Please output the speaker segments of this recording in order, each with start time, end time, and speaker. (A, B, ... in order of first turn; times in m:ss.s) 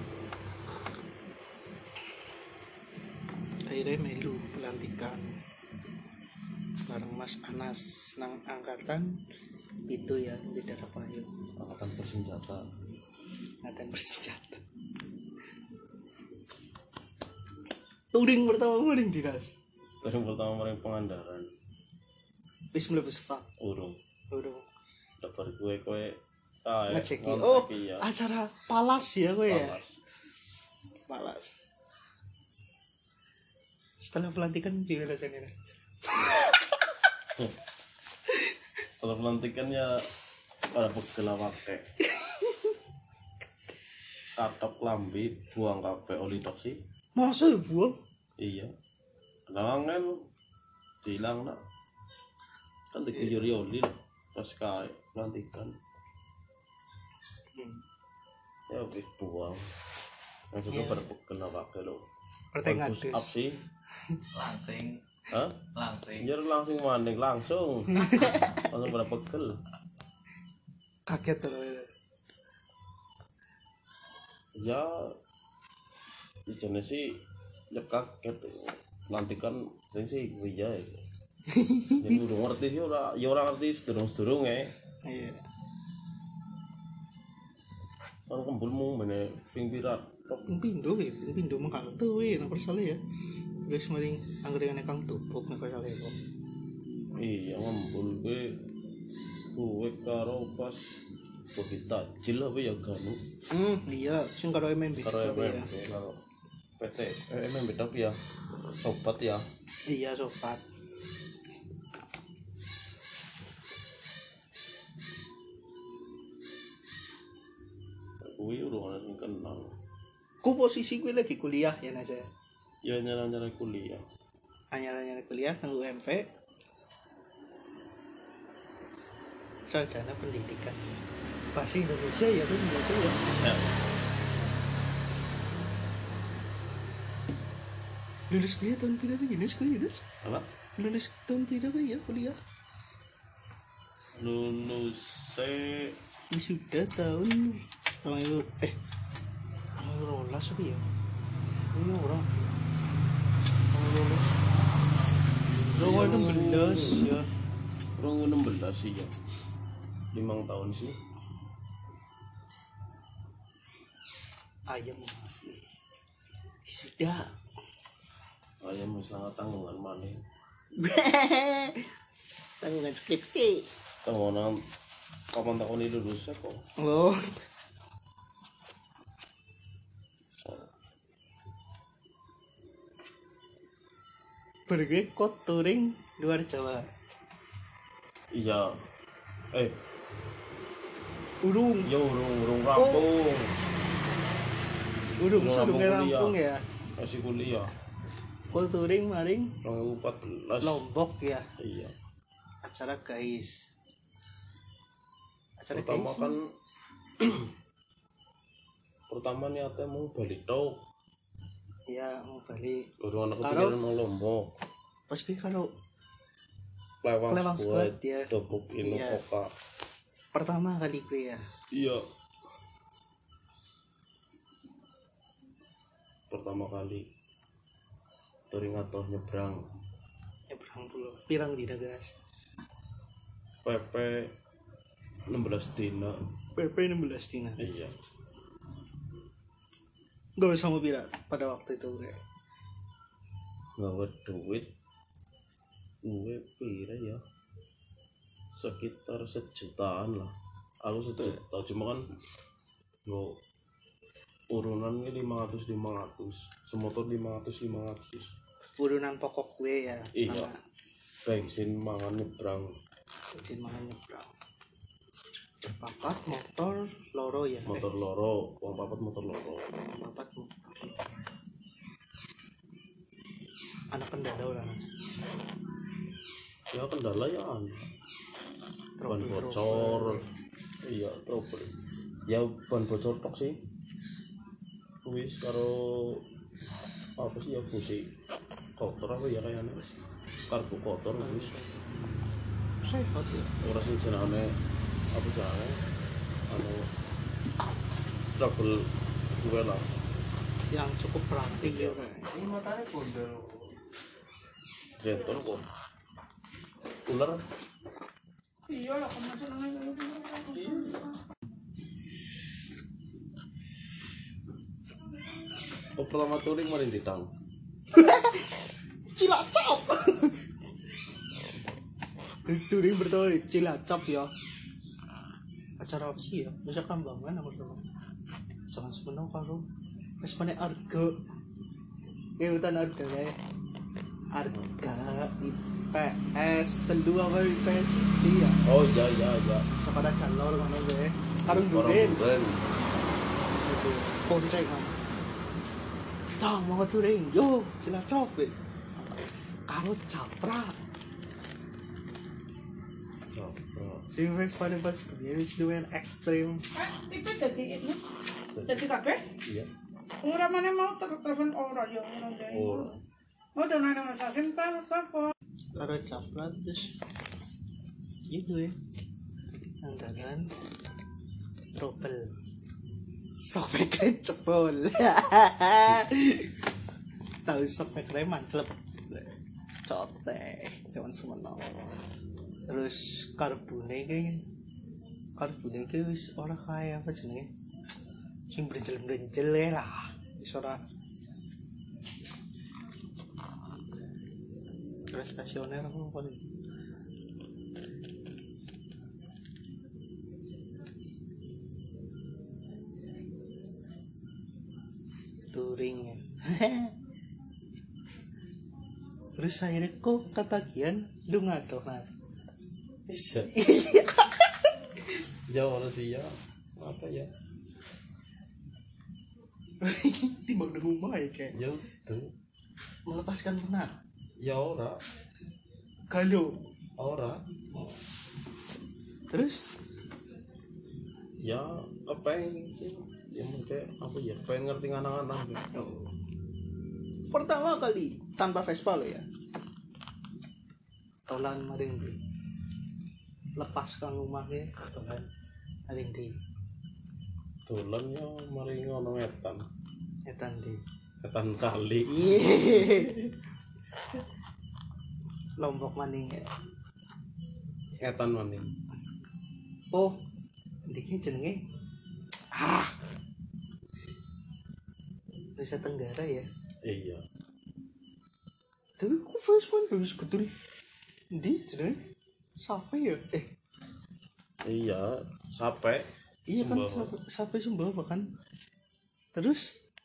0:03.7-0:05.2 A
0:06.9-0:09.1 A
0:09.9-0:11.3 A
0:11.6-0:12.6 B
0:13.6-0:14.6 A
0:18.1-0:19.5 A
0:20.0-0:21.5 B
0:22.7-0:23.5 A
0:23.6-0:24.0 B
0:24.3-0:24.6 A
0:25.2-0:28.1 B
0:26.9-0:29.8 A
0:29.5-0:30.0 B
0:31.1-0:31.5 A
0:34.0-0:35.5 A
0:36.0-0:36.7 A
0:39.0-0:39.9 B
0:40.7-0:41.8 B
0:42.0-0:42.7 A
0:44.4-0:46.8 B
0:47.2-0:48.0 A
0:48.4-0:48.7 B
0:49.5-0:50.2 B
0:51.0-0:51.6 B
0:52.9-0:55.7 B
0:58.7-0:59.7 B
1:00.5-1:02.0 B
1:00.7-1:01.1 A
1:02.5-1:03.3 A
1:02.6-1:03.6 B
1:04.3-1:05.0 C
1:05.3-1:05.6 B
1:05.7-1:06.3 C
1:06.2-1:09.6 B
1:07.9-1:08.6 A
1:11.1-1:11.9 A
1:14.6-1:14.9 B
1:16.5-1:17.1 B
1:17.7-1:21.0 B
1:21.5-1:22.2 A
1:22.0-1:24.7 B
1:25.0-1:25.4 A
1:28.3-1:30.4 B
1:30.5-1:33.0 A
1:33.6-1:36.2 A
1:37.2-1:38.5 B
1:39.5-1:40.9 B
1:41.5-1:43.2 B
1:43.5-1:45.7 A
1:45.0-1:46.2 B
1:46.8-1:48.2 B
1:48.8-1:49.4 B
1:49.9-1:50.6 A
1:58.2-1:59.7 B
2:00.4-2:02.3 A
2:02.8-2:04.0 B
2:04.7-2:06.3 A
2:09.7-2:10.8 A
2:11.5-2:13.2 A
2:13.0-2:13.7 B
2:18.3-2:20.0 A
2:20.2-2:20.5 B
2:20.8-2:22.4 A
2:24.2-2:26.0 B
2:26.3-2:28.8 A
2:29.8-2:30.8 A
2:31.7-2:32.5 A
2:33.7-2:34.3 A
2:35.6-2:37.1 B
2:35.8-2:37.3 A
2:38.0-2:39.1 B
2:40.1-2:41.0 B
2:44.7-2:45.6 A
2:46.7-2:47.3 A
2:48.6-2:50.2 B
2:50.8-2:51.8 A
2:52.6-2:53.6 A
2:54.0-2:54.6 B
2:55.3-2:56.6 B
2:56.8-2:57.3 A
3:00.4-3:00.6 B
3:04.7-3:06.9 A
3:08.3-3:08.7 B
3:09.5-3:09.8 B
3:11.4-3:11.9 A
3:11.8-3:13.6 B
3:12.7-3:13.0 A
3:15.2-3:16.6 A
3:15.3-3:16.4 B
3:17.0-3:17.7 B
3:18.5-3:19.5 A
3:19.6-3:20.8 B
3:20.6-3:21.5 A
3:21.6-3:22.0 B
3:22.6-3:23.7 A
3:25.6-3:26.3 A
3:25.7-3:26.4 B
3:27.2-3:27.5 B
3:29.1-3:30.8 B
3:31.9-3:32.9 A
3:33.0-3:34.5 B
3:33.4-3:33.8 A
3:35.1-3:35.7 A
3:37.0-3:39.5 B
3:37.3-3:38.3 A
3:38.8-3:39.2 A
3:40.3-3:41.4 A
3:41.7-3:42.0 B
3:46.3-3:47.0 B
3:48.5-3:49.6 B
3:50.5-3:52.2 A
3:53.6-3:54.3 B
3:55.3-3:56.2 B
3:56.6-3:57.6 A
3:57.6-3:57.9 B
4:00.4-4:02.2 A
4:03.8-4:04.7 B
4:06.0-4:07.2 B
4:08.5-4:12.0 B
4:13.0-4:13.4 B
4:14.5-4:18.3 B
4:18.8-4:20.6 A
4:20.1-4:20.5 B
4:21.2-4:22.7 B
4:23.3-4:24.3 A
4:25.6-4:27.8 A
4:27.6-4:29.7 B
4:29.9-4:30.9 A
4:33.9-4:34.8 A
4:36.7-4:37.9 B
4:39.0-4:40.2 A
4:39.1-4:40.2 B
4:40.9-4:41.7 B
4:42.3-4:43.6 B
4:45.0-4:46.2 B
4:47.2-4:48.1 B
4:48.8-4:49.8 B
4:50.5-4:51.5 B
4:51.2-4:51.8 A
4:52.8-4:53.5 A
4:53.6-4:54.5 B
4:55.1-4:55.8 B
4:56.5-4:56.9 B
4:58.4-4:58.8 B
4:59.4-4:59.9 B
5:00.7-5:02.3 A
5:01.6-5:02.0 B
5:02.4-5:03.4 C
5:05.0-5:05.6 B
5:07.1-5:07.4 B
5:08.7-5:11.2 D
5:16.0-5:17.3 B
5:17.9-5:18.5 A
5:19.1-5:20.3 A
5:22.5-5:24.3 A
5:25.8-5:27.8 A
5:28.7-5:29.6 A
5:30.2-5:31.1 A
5:32.4-5:33.3 A
5:34.3-5:38.6 A
5:38.6-5:39.7 B
5:39.8-5:42.2 A
5:41.5-5:42.6 B
5:43.6-5:45.0 A
5:46.4-5:48.5 A
5:49.7-5:50.8 A
5:53.3-5:54.0 B
5:54.1-5:56.6 A
5:56.7-5:58.1 D
5:58.5-5:58.8 B
5:58.7-5:59.2 D
5:59.4-5:59.7 B
6:00.2-6:02.9 D
6:02.5-6:03.0 B
6:03.6-6:05.3 D
6:05.8-6:06.9 A
6:08.3-6:08.8 A
6:09.8-6:10.5 A
6:11.8-6:12.3 A
6:13.4-6:16.5 A
6:17.4-6:19.3 A
6:19.8-6:21.7 A
6:22.7-6:24.4 A
6:25.4-6:27.5 A
6:28.5-6:30.8 A
6:35.1-6:36.4 A
6:45.5-6:46.9 A
6:49.4-6:52.1 A
6:53.1-6:53.5 B
6:53.5-6:54.7 A
6:55.5-6:57.3 B
6:59.8-7:01.6 A
7:01.5-7:02.3 B
7:03.1-7:03.9 A
7:04.4-7:05.0 B
7:06.1-7:06.6 A
7:07.0-7:07.4 B
7:09.3-7:09.6 A
7:11.4-7:15.7 B
7:15.7-7:16.0 A
7:17.3-7:19.2 A
7:21.3-7:22.2 A
7:23.6-7:25.2 A
7:25.9-7:26.3 A
7:27.6-7:29.6 B
7:30.3-7:30.8 A
7:31.2-7:32.9 B
7:32.1-7:33.2 A
7:35.6-7:36.4 A
7:38.0-7:38.7 B
7:40.9-7:41.6 A
7:42.5-7:42.9 A
7:45.6-7:46.5 A
7:46.8-7:47.2 B
7:49.0-7:50.5 A
7:51.3-7:52.0 A
7:52.6-7:53.4 A
7:54.6-7:57.1 B
7:56.5-7:58.2 A
7:59.3-7:59.7 A